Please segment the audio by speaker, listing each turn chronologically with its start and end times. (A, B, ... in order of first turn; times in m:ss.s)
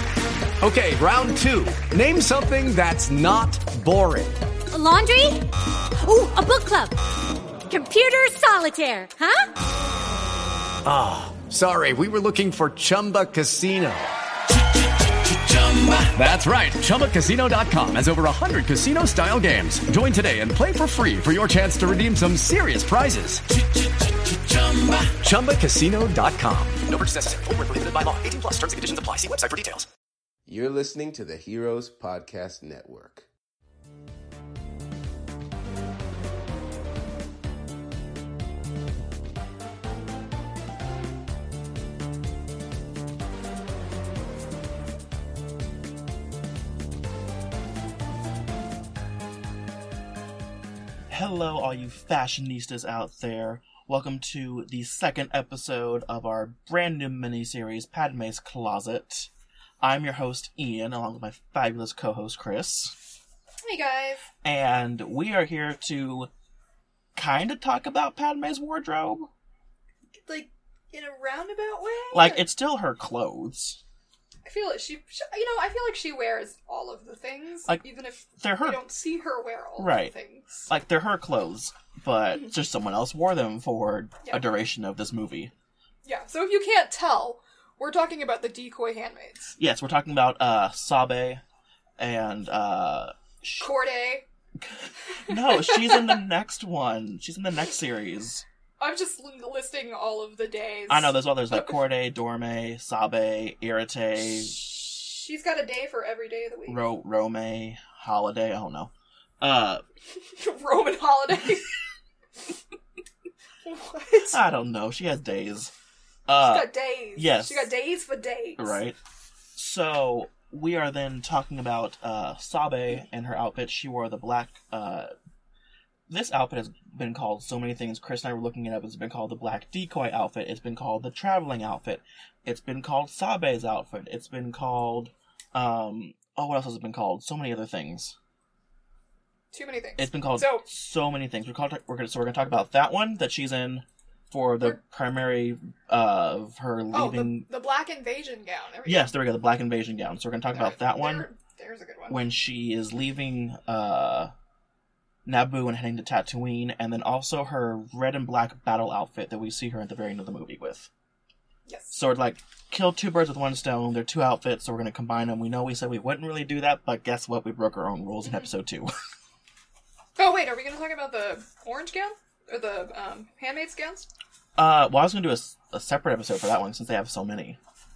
0:00.6-0:04.4 A
0:04.7-0:07.0 B
0:07.7-0:09.5 B
0:10.8-0:14.1 A
0:15.2-0:23.4 A
0:24.2-0:29.8 A
0:30.5-0:33.3 C
0:51.1-0:59.3 D
0:59.8-1:03.0 D
1:03.6-1:04.2 E
1:04.4-1:06.3 D
1:07.1-1:09.3 D
1:10.2-1:12.4 E
1:12.1-1:13.8 D
1:14.4-1:20.7 E
1:17.6-1:18.8 D
1:19.8-1:20.1 D
1:20.7-1:25.5 D
1:26.0-1:29.6 E
1:29.6-1:31.4 D
1:32.0-1:33.7 D
1:33.6-1:34.2 E
1:34.6-1:38.4 D
1:35.3-1:36.2 E
1:38.8-1:41.8 E
1:40.9-1:44.5 D
1:44.3-1:46.8 E
1:46.7-1:49.8 D
1:50.2-1:51.7 E
1:53.6-1:54.4 E
1:54.1-1:55.7 D
1:56.3-1:57.7 D
1:56.4-1:58.8 E
1:58.6-1:59.0 D
1:59.5-2:05.1 D
2:06.1-2:18.2 D
2:19.5-2:20.6 E
2:20.0-2:27.5 D
2:26.9-2:29.1 E
2:28.8-2:31.3 D
2:30.5-2:32.2 E
2:32.1-2:34.3 D
2:35.2-2:40.9 D
2:41.7-2:42.0 E
2:41.9-2:48.9 D
2:50.2-2:54.1 E
2:54.6-2:57.6 D